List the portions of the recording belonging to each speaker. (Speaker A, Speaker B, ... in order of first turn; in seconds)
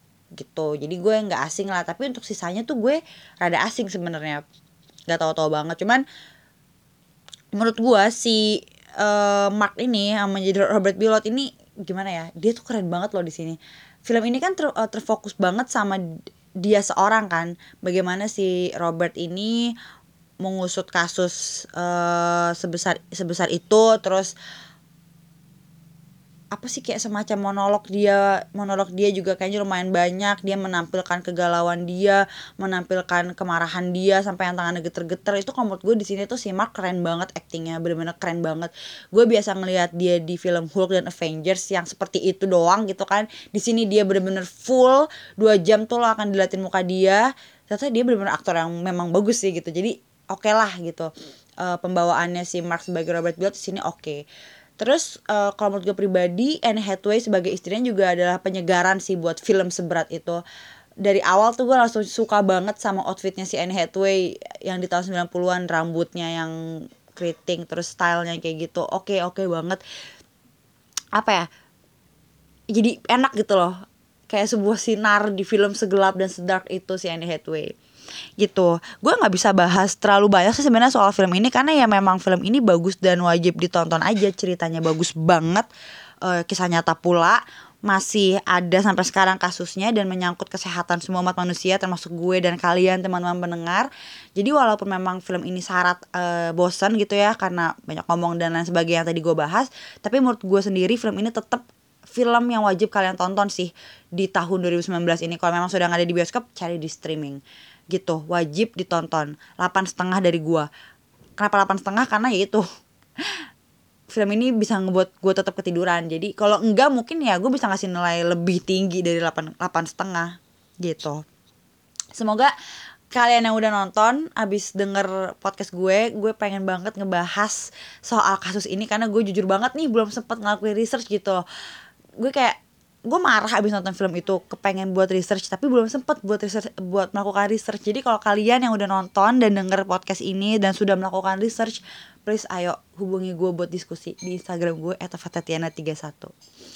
Speaker A: 0.4-4.4, 5.1-6.0, 7.5-16.0, 16.6-19.7, 20.4-24.3, 26.5-51.1, 51.6-54.2, 54.8-60.4, 61.0-66.5, 67.1-69.8, 71.1-71.5, 72.7-73.8, 74.3-77.7, 78.4-85.7, 86.2-107.4, 107.9-110.7, 111.4-112.7, 114.1-121.2, 122.1-122.5, 123.1-131.4, 132.2-132.6, 133.1-146.3